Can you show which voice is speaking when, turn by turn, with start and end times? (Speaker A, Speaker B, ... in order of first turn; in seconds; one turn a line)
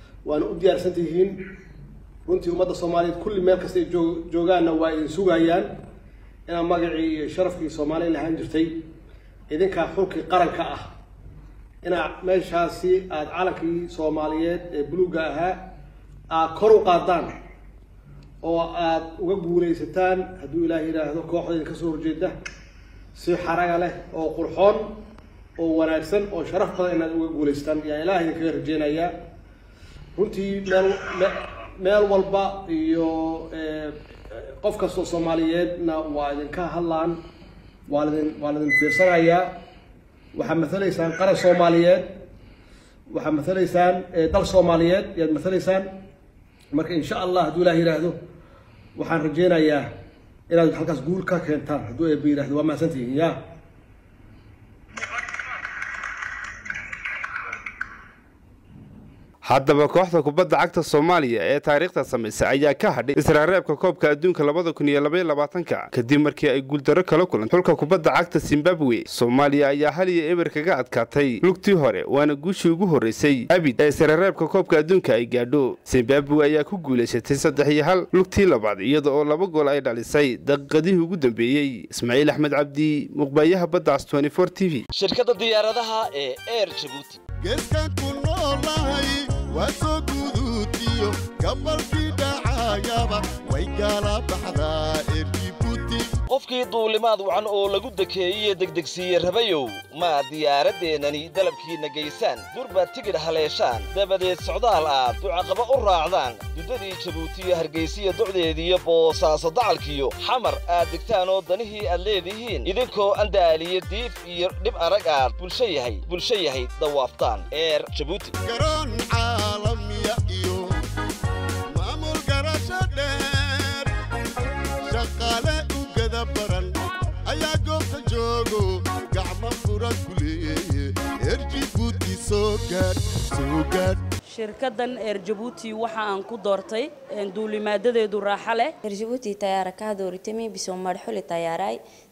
Speaker A: 0.2-1.4
Speaker A: 2.3-5.7
Speaker A: 6.5-8.8
Speaker A: 9.5-10.9
Speaker A: 11.8-15.7
Speaker A: 16.3-17.3
Speaker A: 18.4-22.4
Speaker A: 23.1-25.0
Speaker A: 25.6-29.1
Speaker A: 30.2-37.2
Speaker A: 37.9-39.6
Speaker A: 40.3-42.2
Speaker A: 43.1-45.9
Speaker A: 46.7-48.2
Speaker A: 49.0-49.9
Speaker A: 50.5-53.4
Speaker B: 59.4-84.8
Speaker C: 84.9-87.2
Speaker D: 87.4-96.1
Speaker C: 96.3-118.4
Speaker D: 118.4-120.7
Speaker D: 121.7-123.9
Speaker D: 124.9-134.0
Speaker E: 134.3-138.8
Speaker F: 138.8-141.8